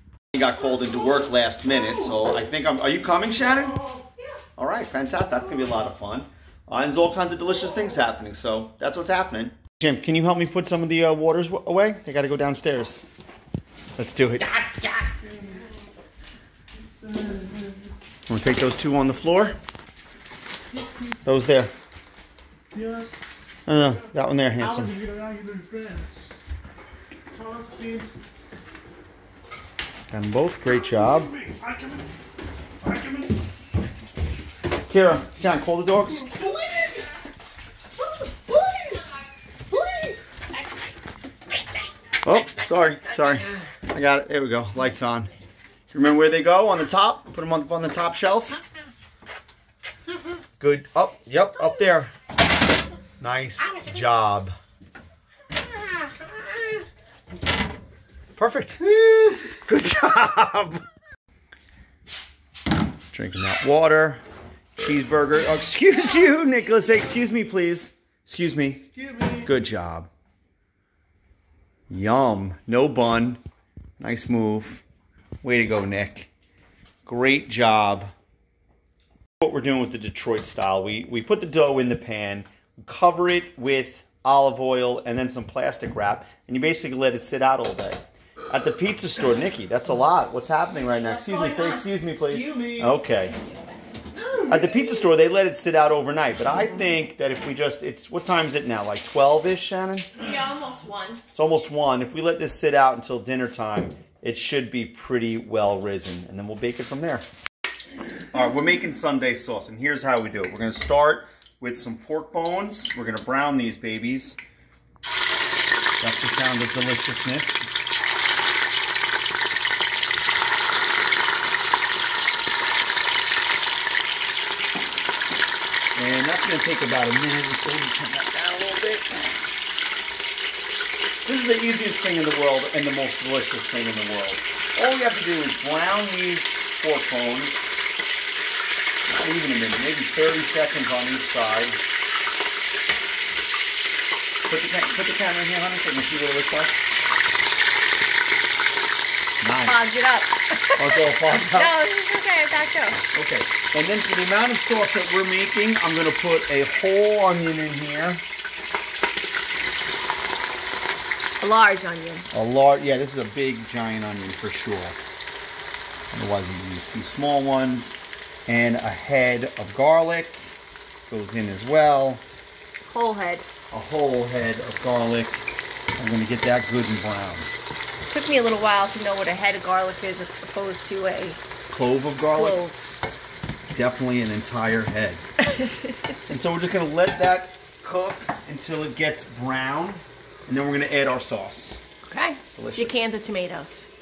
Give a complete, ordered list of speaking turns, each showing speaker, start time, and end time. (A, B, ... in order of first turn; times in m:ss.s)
0:00.3-0:03.8 A
0:04.6-0:13.1 A
0:14.0-0:14.8 A
0:18.3-0:19.6 A
0:21.2-0:21.7 A
0:23.7-0:25.0 A
0:24.8-0:26.2 B
0:27.3-0:28.2 B
0:30.1-0:31.3 A
0:31.5-0:32.0 B
0:32.8-0:33.3 B
0:34.9-0:36.3 A
0:36.3-0:37.1 B
0:38.2-0:39.1 B
0:39.7-0:40.2 B
0:42.2-0:45.3 A
0:45.9-0:48.6 A
0:50.6-0:52.1 A
0:53.2-0:54.5 A
0:58.4-0:59.0 A
0:59.5-1:00.8 A
1:03.1-1:04.2 A
1:04.8-1:08.9 A
1:09.0-1:09.4 B
1:09.4-1:10.1 A
1:11.9-1:13.4 A
1:14.0-1:14.8 A
1:15.4-1:16.3 A
1:17.0-1:18.1 A
1:19.4-1:33.4 A
1:30.9-1:31.8 C
1:32.3-1:32.9 B
1:34.2-1:34.6 B
1:34.5-1:40.1 A
1:40.2-1:41.2 C
1:41.3-1:47.2 A
1:48.3-1:54.4 A
1:56.0-1:57.7 A
2:06.0-2:09.2 A
2:11.2-2:17.7 A
2:19.1-2:21.8 A
2:24.5-2:26.8 A
2:29.4-2:29.9 A
2:29.6-2:33.0 C
2:30.8-2:31.8 A
2:33.1-2:38.2 A
2:41.4-2:42.3 C
2:42.3-2:45.0 A
2:46.1-2:50.5 A
2:51.1-2:52.2 A
2:52.8-2:53.5 C
2:53.7-2:55.4 A
2:56.0-2:57.5 A
2:58.1-3:01.4 C
3:01.7-3:02.6 A
3:02.3-3:02.8 C
3:03.7-3:05.2 A
3:06.3-3:11.8 A
3:12.1-3:13.9 C
3:12.6-3:13.0 A